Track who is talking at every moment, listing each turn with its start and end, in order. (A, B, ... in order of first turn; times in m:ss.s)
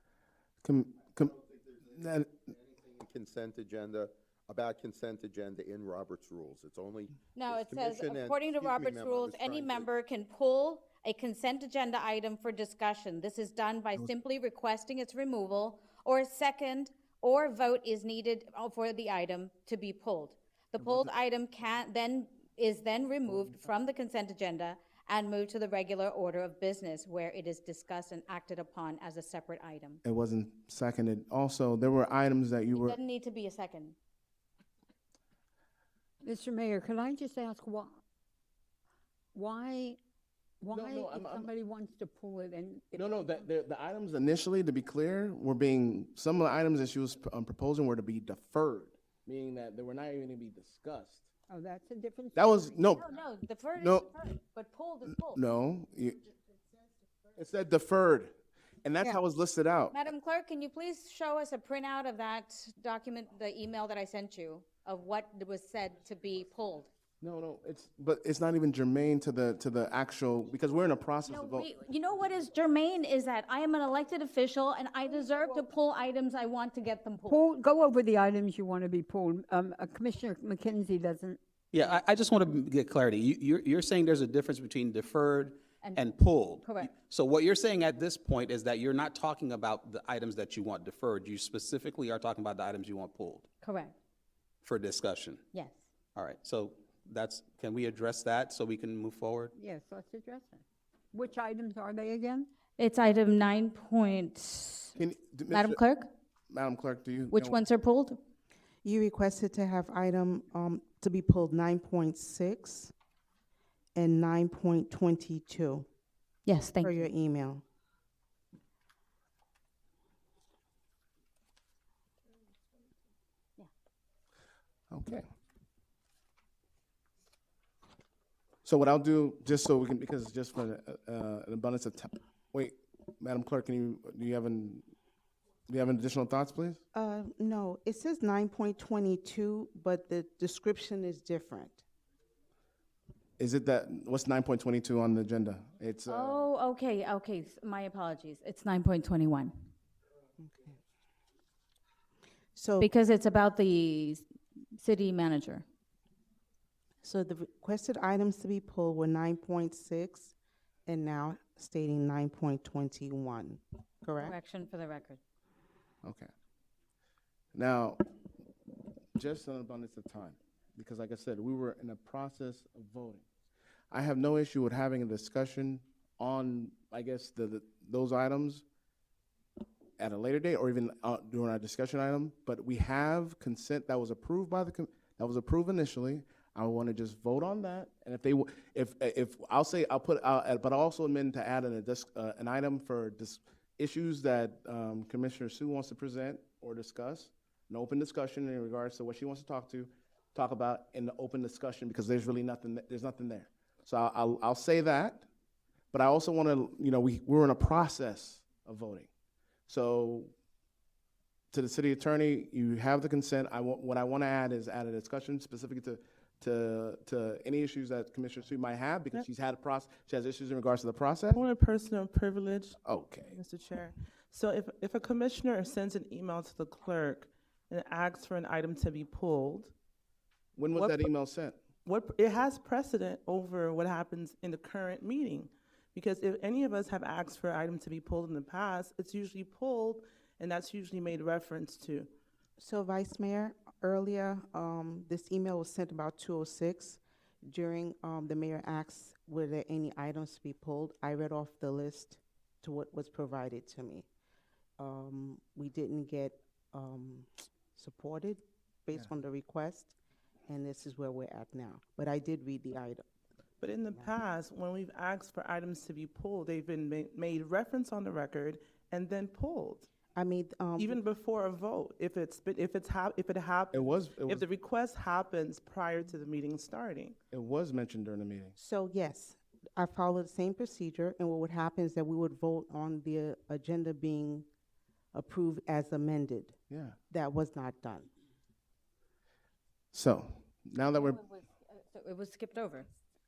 0:00.6-0:02.5 A
0:02.8-0:09.9 B
0:07.3-0:30.0 C
0:20.8-0:21.1 A
0:30.0-0:33.0 A
0:32.8-0:34.0 C
0:36.2-0:38.0 D
0:39.3-0:40.0 D
0:40.6-0:43.4 D
0:40.7-0:41.5 A
0:42.9-0:51.3 A
0:51.5-0:52.7 D
0:52.3-0:53.0 A
0:52.9-0:55.4 C
0:53.8-0:54.1 A
0:55.3-0:56.2 A
0:57.4-1:00.0 A
0:59.9-1:06.9 C
1:07.2-1:11.7 A
1:11.3-1:17.4 C
1:15.1-1:15.6 D
1:17.2-1:21.4 D
1:21.7-1:33.4 E
1:26.6-1:26.9 C
1:33.6-1:34.0 C
1:34.6-1:35.4 E
1:35.5-1:35.8 C
1:36.1-1:39.5 E
1:39.5-1:42.5 D
1:42.8-1:45.0 C
1:45.0-1:45.8 A
1:45.5-1:46.1 C
1:46.5-1:47.6 A
1:47.3-1:48.2 C
1:48.8-1:52.9 F
1:53.9-1:55.8 F
1:56.4-1:57.1 C
1:56.8-1:57.6 F
2:04.9-2:05.3 A
2:08.6-2:14.8 A
2:15.7-2:16.8 A
2:16.9-2:21.8 F
2:23.4-2:26.4 A
2:26.1-2:29.5 C
2:30.4-2:30.8 F
2:32.5-2:32.9 F
2:32.8-2:35.6 C
2:37.0-2:40.3 F
2:40.8-2:44.4 F
2:44.2-2:45.2 C
2:46.0-2:46.3 A
2:47.5-2:48.0 A
2:49.2-2:53.2 A
2:53.9-2:58.6 A
3:00.0-3:25.3 A
3:25.9-3:29.1 A
3:29.7-3:30.3 A
3:31.5-3:41.4 A
3:41.3-3:49.7 G
3:42.8-3:43.4 A
3:50.6-3:51.6 A
3:50.7-3:51.1 G
3:51.8-4:02.1 G
4:02.6-4:14.1 F
4:14.8-4:19.9 F
4:20.5-4:23.0 F
4:23.6-4:29.9 G
4:30.1-4:31.0 F
4:30.8-4:37.2 G
4:33.7-4:34.5 A
4:37.3-4:38.5 A
4:38.6-4:44.5 F
4:45.1-4:46.6 F
4:46.7-4:47.0 A
4:47.1-4:48.1 F
4:49.9-4:51.2 A
4:50.9-4:52.9 C